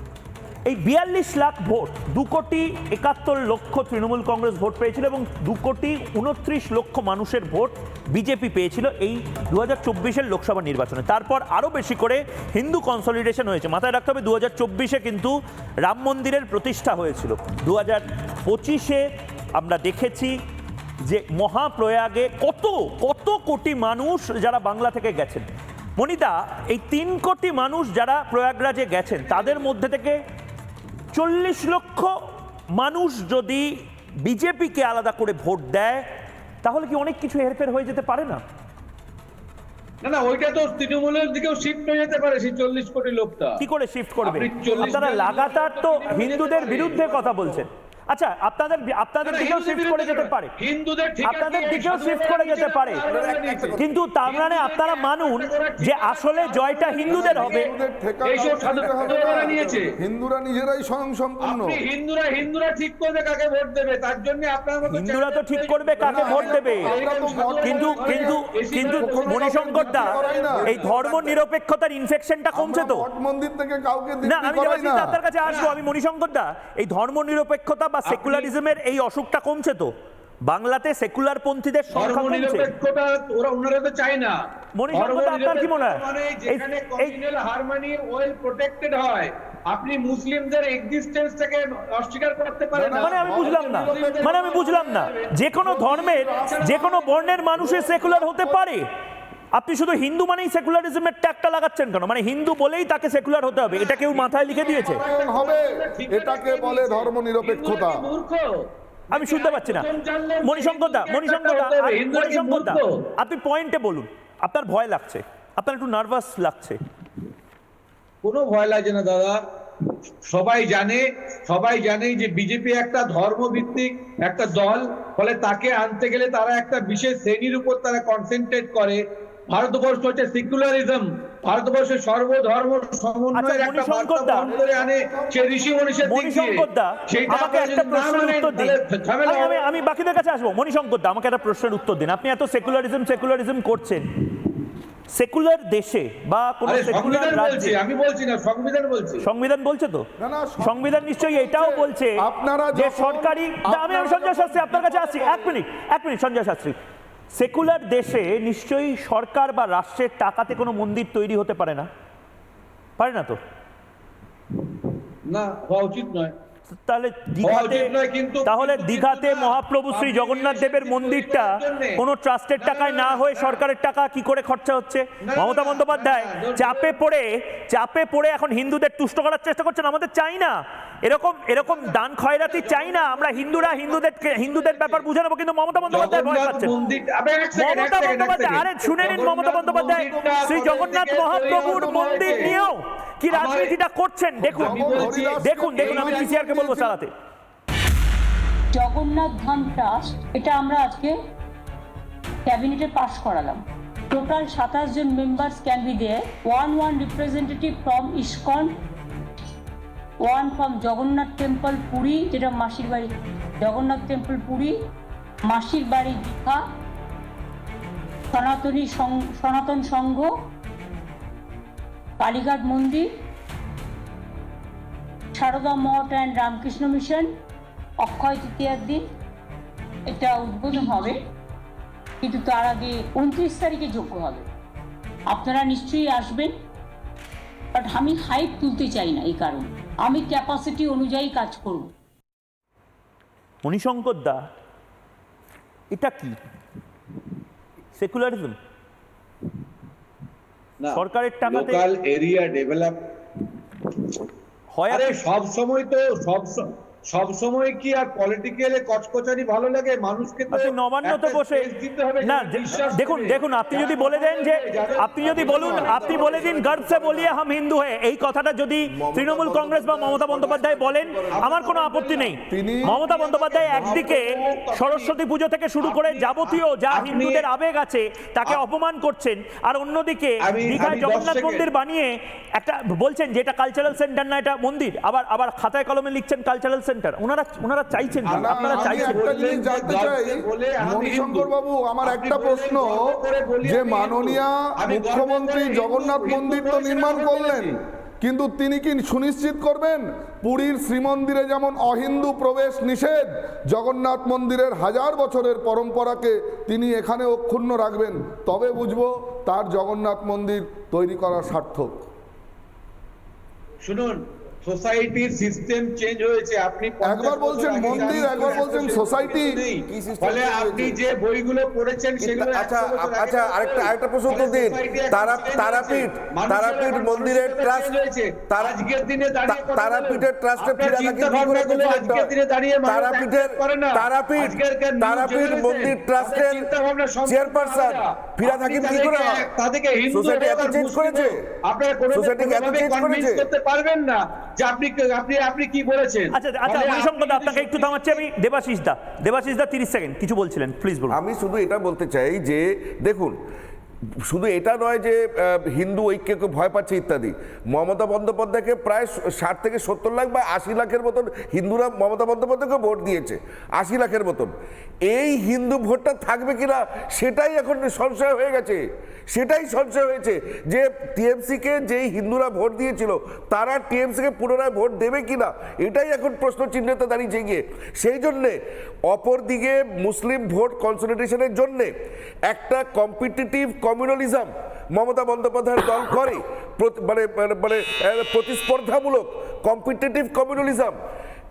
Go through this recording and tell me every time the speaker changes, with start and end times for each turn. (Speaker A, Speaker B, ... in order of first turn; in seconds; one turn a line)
Speaker A: 0.7-20.3
Speaker A: 21.0-25.4
Speaker A: 26.0-30.2
Speaker A: 31.1-32.1
Speaker A: 32.7-36.0
Speaker A: 36.6-38.4
Speaker B: 40.0-43.6
Speaker A: 43.6-50.5
Speaker B: 44.2-47.6
Speaker B: 49.2-57.7
Speaker A: 51.2-53.0
Speaker C: 53.1-53.9
Speaker A: 53.8-57.7
Speaker D: 57.1-61.8
Speaker B: 58.2-59.9
Speaker B: 61.4-71.3
Speaker A: 64.9-67.0
Speaker D: 66.0-70.9
Speaker A: 67.6-73.0
Speaker D: 72.5-75.2
Speaker A: 74.2-79.9
Speaker B: 75.4-75.8
Speaker B: 78.1-78.5
Speaker A: 80.4-82.7
Speaker B: 81.9-84.3
Speaker A: 84.7-87.1
Speaker B: 84.9-97.1
Speaker D: 92.7-94.5
Speaker A: 93.0-98.8
Speaker D: 95.6-98.6
Speaker A: 99.5-105.0
Speaker B: 104.0-108.5
Speaker D: 104.9-108.1
Speaker A: 109.1-109.9
Speaker B: 109.1-112.9
Speaker A: 110.4-116.8
Speaker B: 118.2-119.4
Speaker B: 120.3-139.7
Speaker A: 133.3-134.5
Speaker A: 136.1-138.8
Speaker A: 139.3-144.0
Speaker A: 145.1-147.7
Speaker B: 146.7-149.2
Speaker A: 149.2-150.1
Speaker D: 150.2-155.5
Speaker A: 150.6-152.2
Speaker A: 152.7-156.8
Speaker A: 157.3-161.9
Speaker A: 163.0-163.4
Speaker B: 165.3-166.3
Speaker A: 166.7-167.9
Speaker B: 167.4-172.0
Speaker A: 168.4-186.7
Speaker B: 172.6-173.6
Speaker B: 175.2-176.9
Speaker B: 181.6-181.9
Speaker B: 182.4-185.0
Speaker B: 185.9-192.5
Speaker A: 187.5-197.1
Speaker D: 189.9-192.6
Speaker B: 193.3-193.7
Speaker D: 194.4-197.0
Speaker B: 194.4-196.3
Speaker E: 198.7-201.1
Speaker E: 202.4-208.7
Speaker E: 210.2-214.7
Speaker E: 215.5-216.6
Speaker E: 218.3-220.3
Speaker E: 222.2-223.1
Speaker E: 225.3-227.3
Speaker E: 228.0-229.0
Speaker E: 230.1-231.2
Speaker E: 232.2-234.4
Speaker E: 235.3-236.5
Speaker E: 237.7-241.9
Speaker A: 243.6-244.5
Speaker A: 245.9-246.4
Speaker A: 247.9-248.6
Speaker B: 250.8-253.0
Speaker A: 250.9-251.8
Speaker A: 254.7-255.2
Speaker B: 254.9-267.0
Speaker A: 260.5-261.6
Speaker A: 262.2-289.2
Speaker D: 265.2-267.3
Speaker D: 268.9-271.5
Speaker C: 269.3-270.5
Speaker B: 271.3-275.1
Speaker D: 272.5-273.0
Speaker D: 273.6-274.3
Speaker B: 275.8-277.4
Speaker B: 280.5-281.7
Speaker D: 288.2-293.0
Speaker B: 288.3-291.5
Speaker B: 292.0-297.7
Speaker D: 293.6-311.9
Speaker B: 313.8-348.2
Speaker D: 317.0-319.6
Speaker C: 319.9-321.0
Speaker C: 322.2-327.9
Speaker C: 328.5-328.8
Speaker C: 329.4-332.3
Speaker C: 332.8-336.7
Speaker C: 337.2-339.5
Speaker C: 340.1-341.4
Speaker C: 342.1-343.4
Speaker A: 346.3-351.2
Speaker C: 351.1-353.3
Speaker C: 354.3-364.5
Speaker C: 365.0-381.9
Speaker C: 382.4-390.9